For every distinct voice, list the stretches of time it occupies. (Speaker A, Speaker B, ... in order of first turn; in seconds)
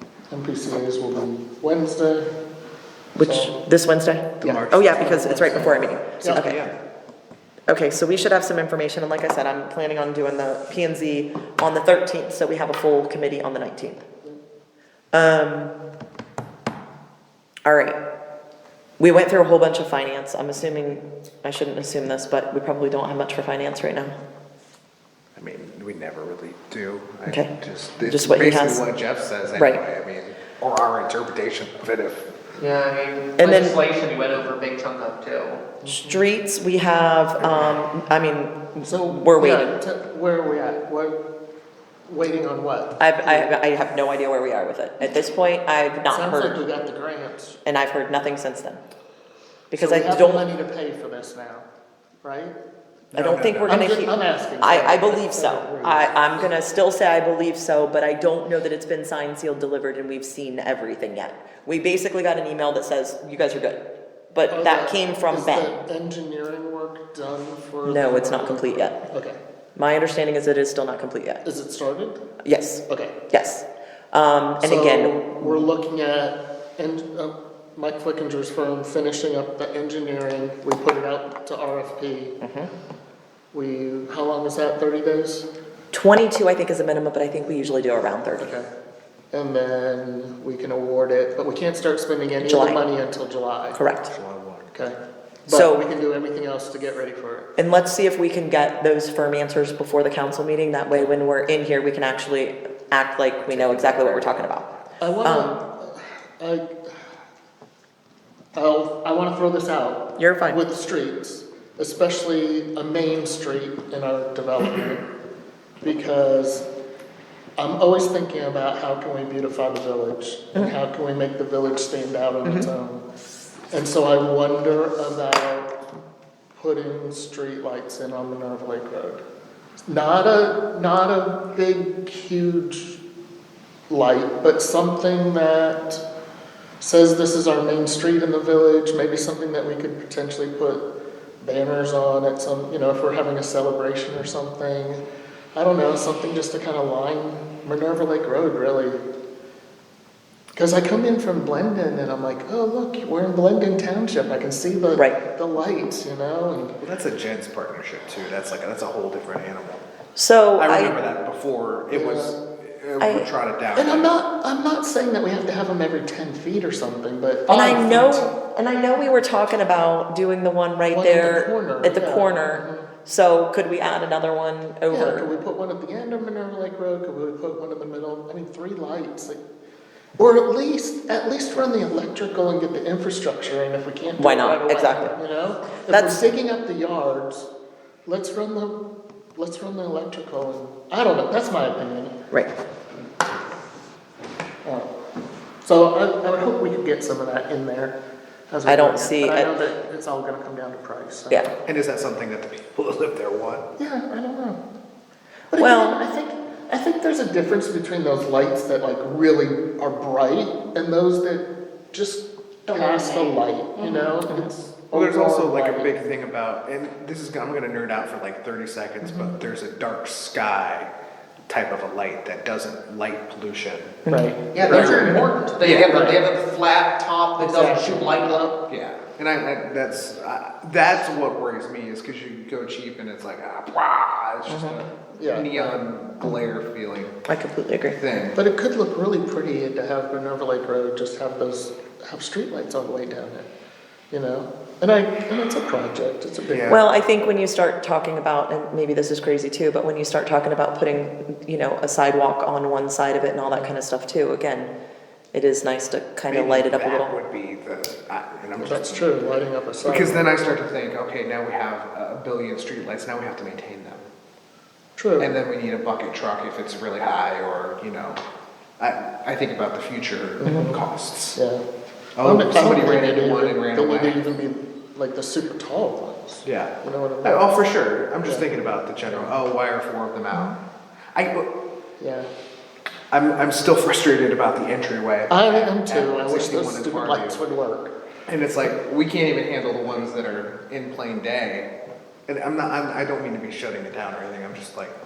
Speaker A: 0.3-2.3, 3.2-3.5, 4.4-6.5, 35.8-36.2, 38.8-41.2, 42.1-43.5, 46.1-47.6, 49.8-51.7, 52.2-52.5, 53.7-56.1, 64.5-69.3, 71.4-72.2, 72.9-73.1, 74.6-82.4, 83.5-85.5, 88.4-88.7, 89.3-93.8, 94.7-97.5, 105.0-106.8, 108.5-115.0, 115.8-116.7, 117.6-123.0, 123.7-125.7, 126.6-129.2, 129.9-133.0, 133.9-136.0, 136.8-140.9, 141.4-145.0, 145.6-149.0, 150.6-156.8, 161.9-162.4, 163.8-168.3, 170.9-172.9, 174.9-179.4, 180.2-187.5, 188.1-188.8, 189.4-192.1, 194.6-194.9, 195.6-198.0, 198.5-201.5, 203.8-204.6, 205.5-215.9, 219.0-219.4, 224.1-225.3, 225.8-226.2, 227.4-228.6, 235.2-235.8, 238.4-243.5, 244.1-246.8, 258.6-260.3, 265.0-265.3, 270.4-270.8, 271.4-271.6, 272.2-277.4, 279.1-279.3, 282.0-282.3, 285.3-287.9
Speaker B: 3.1-6.6, 7.7-14.0, 15.1-15.7, 17.6-18.0, 19.0-24.1, 27.3-28.9, 29.6-29.8, 33.4-33.8, 35.9-39.8, 43.0-46.6, 47.6-48.8, 49.7-50.5, 53.1-63.8, 64.3-65.7, 67.8-69.0, 69.8-71.4, 72.4-75.7, 82.4-82.7, 85.9-88.5, 92.4-92.8, 93.8-94.1, 95.5-95.8, 97.6-104.7, 105.2-105.5, 110.2-110.6, 154.9-155.2, 160.2-160.9, 163.0-163.3, 167.5-175.2, 184.2-185.1, 185.9-186.2, 198.7-199.5, 205.6-206.0, 224.1-224.3, 234.5-234.8, 237.3-238.0, 246.7-254.7, 255.3-257.1
Speaker C: 4.4-5.6, 6.3-6.7, 25.4-32.3, 53.1-53.9, 94.0-94.7, 103.5-104.5, 156.8-159.9, 160.6-164.1, 201.7-203.7, 214.9-220.9, 221.5-224.0, 224.6-225.0, 225.6-226.0, 228.7-237.2, 238.0-238.4, 246.5-246.8, 256.3-259.0, 259.8-264.1, 265.2-268.2, 268.8-271.4, 272.2-274.2, 276.4-280.6, 281.1-281.5, 283.1-287.4, 288.3-291.7, 292.3-294.9
Speaker D: 32.6-35.6, 212.7-214.2, 224.5-228.4